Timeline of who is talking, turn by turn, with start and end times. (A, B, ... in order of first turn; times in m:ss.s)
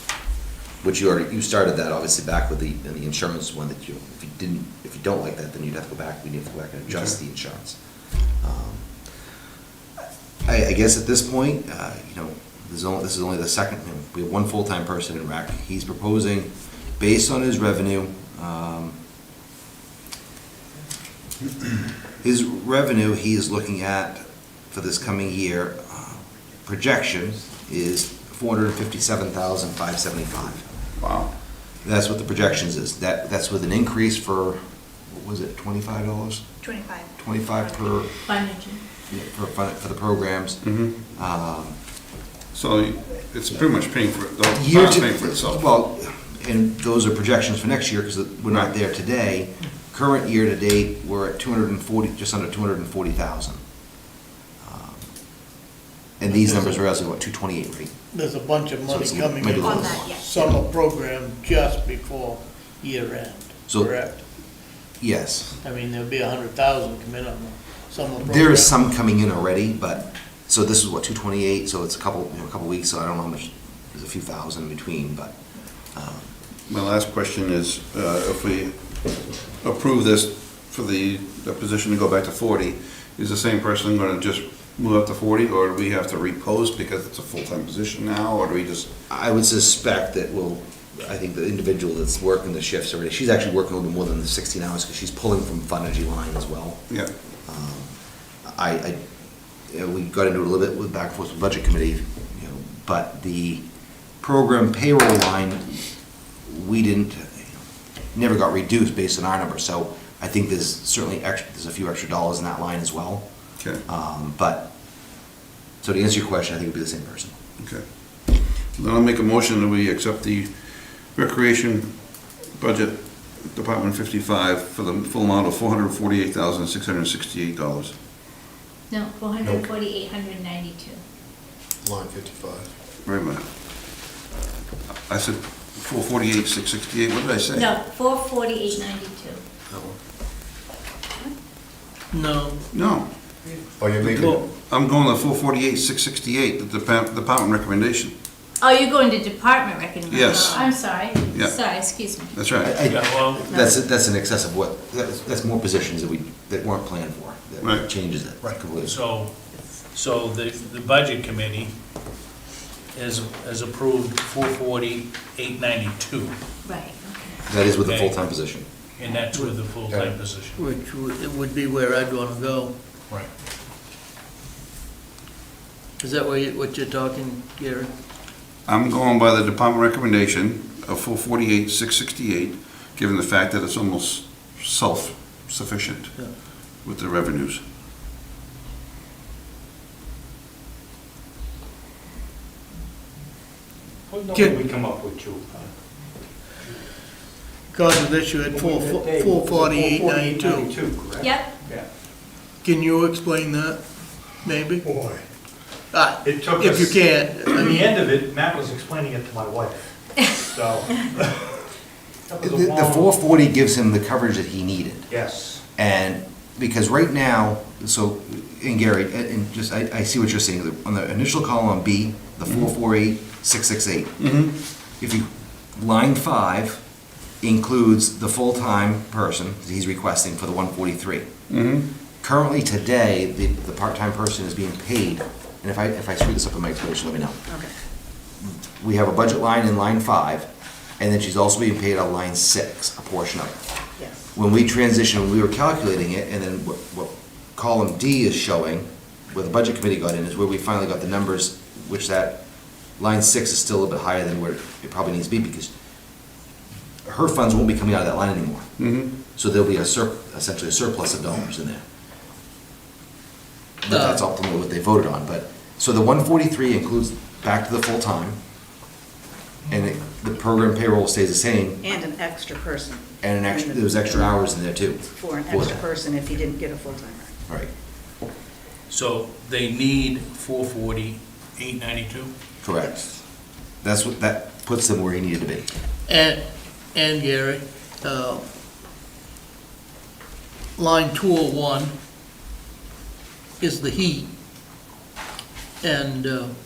0:00.8-0:07.8 A
0:08.4-0:08.9 A
0:10.4-0:19.0 A
0:22.2-0:30.7 A
0:31.0-0:31.3 B
0:31.8-0:36.5 A
0:36.6-0:37.1 C
0:37.2-0:38.1 A
0:38.3-0:38.8 D
0:39.1-0:41.8 A
0:40.6-0:41.0 B
0:42.5-0:45.6 B
0:44.5-0:53.6 A
0:54.6-0:55.1 A
0:56.2-0:58.0 A
0:56.3-0:56.8 E
0:58.1-1:04.2 E
0:58.9-1:00.5 A
0:59.6-1:00.3 C
1:03.7-1:04.2 A
1:05.0-1:05.6 A
1:05.6-1:08.8 E
1:08.2-1:16.3 A
1:16.7-1:28.9 B
1:29.1-1:36.9 A
1:37.4-1:39.0 A
1:39.7-1:43.6 A
1:44.2-1:45.8 A
1:46.4-1:47.6 A
1:48.1-1:53.2 A
1:53.8-1:54.7 A
1:55.8-1:57.4 A
1:57.6-2:07.9 B
2:08.9-2:11.0 D
2:09.4-2:09.7 F
2:11.8-2:12.7 F
2:13.0-2:13.4 B
2:15.1-2:17.7 B
2:17.5-2:19.4 D
2:19.7-2:20.0 F
2:22.1-2:22.6 E
2:22.7-2:23.3 B
2:23.8-2:24.3 F
2:24.0-2:28.1 B
2:28.6-2:32.4 D
2:30.1-2:32.7 B
2:32.6-2:39.0 A
2:32.8-2:33.6 G
2:37.6-2:37.9 B
2:38.4-2:39.4 G
2:39.9-2:41.7 G
2:42.9-2:46.3 G
2:46.7-2:47.4 D
2:47.5-2:48.7 A
2:47.8-2:48.2 G
2:49.0-2:50.6 G
2:49.3-2:49.6 E
2:50.6-2:52.7 E
2:56.0-2:57.9 E
2:58.7-3:07.6 B
3:14.1-3:15.7 H
3:14.3-3:14.6 E
3:17.7-3:20.7 E
3:18.5-3:21.9 H
3:21.2-3:21.5 D
3:22.6-3:23.8 E
3:24.4-3:24.8 E
3:24.8-3:25.2 H
3:25.9-3:27.8 E
3:26.2-3:29.8 H
3:30.4-3:31.5 H
3:32.3-3:33.2 H
3:32.4-3:35.1 A
3:35.1-3:35.6 H
3:35.8-3:44.2 A
3:44.2-3:44.5 B
3:45.0-3:46.8 A
3:47.4-3:51.3 A
3:51.5-3:51.9 B
3:52.2-3:57.4 A
3:58.6-4:00.5 A
4:01.0-4:03.6 A
4:04.3-4:12.4 A
4:13.0-4:15.7 A
4:17.0-4:18.7 A
4:18.8-4:19.1 B
4:19.3-4:21.8 A
4:23.8-4:28.4 A
4:23.9-4:24.2 E
4:29.7-4:31.8 A
4:31.8-4:34.3 C
4:33.2-4:35.8 A
4:35.1-4:37.4 C
4:38.9-4:42.3 G
4:42.6-4:43.0 A
4:43.8-4:45.7 A
4:46.1-4:46.4 E
4:46.9-4:48.4 E
4:50.8-4:51.9 E
4:53.6-4:54.3 E
4:55.8-4:56.5 E